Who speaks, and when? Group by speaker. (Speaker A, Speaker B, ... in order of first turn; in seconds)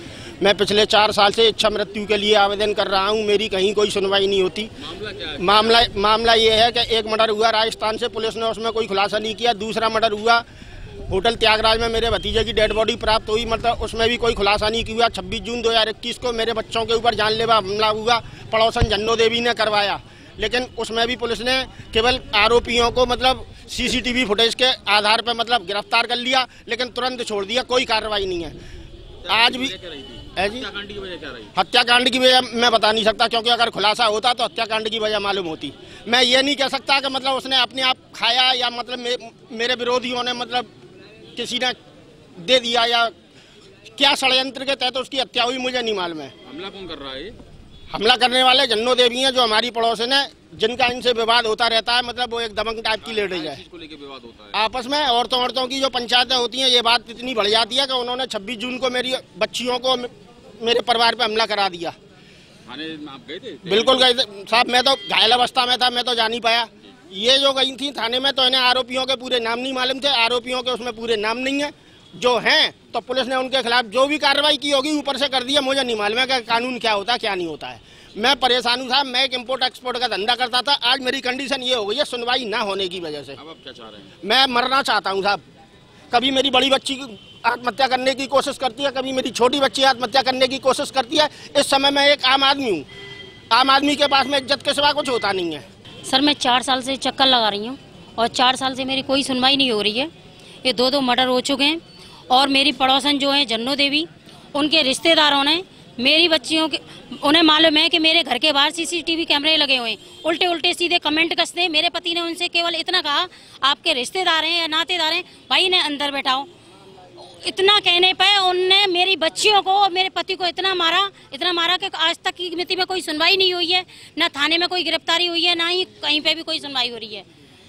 Speaker A: 0.4-4.7, 5.4-10.4, 11.1-28.6, 29.3-29.7, 30.4-30.7, 31.5-40.7, 41.4-41.8, 42.4-43.1, 43.9-46.3, 47.9-53.6, 54.5-61.9, 63.6-83.4, 84.2-85.4, 86.1-92.8, 93.5-95.6
Speaker B: 4.9-5.5, 29.2-31.5, 46.4-47.4, 53.1-54.5, 62.6-64.0, 83.4-84.1
Speaker C: 96.1-100.1, 100.6-116.5, 117.2-127.2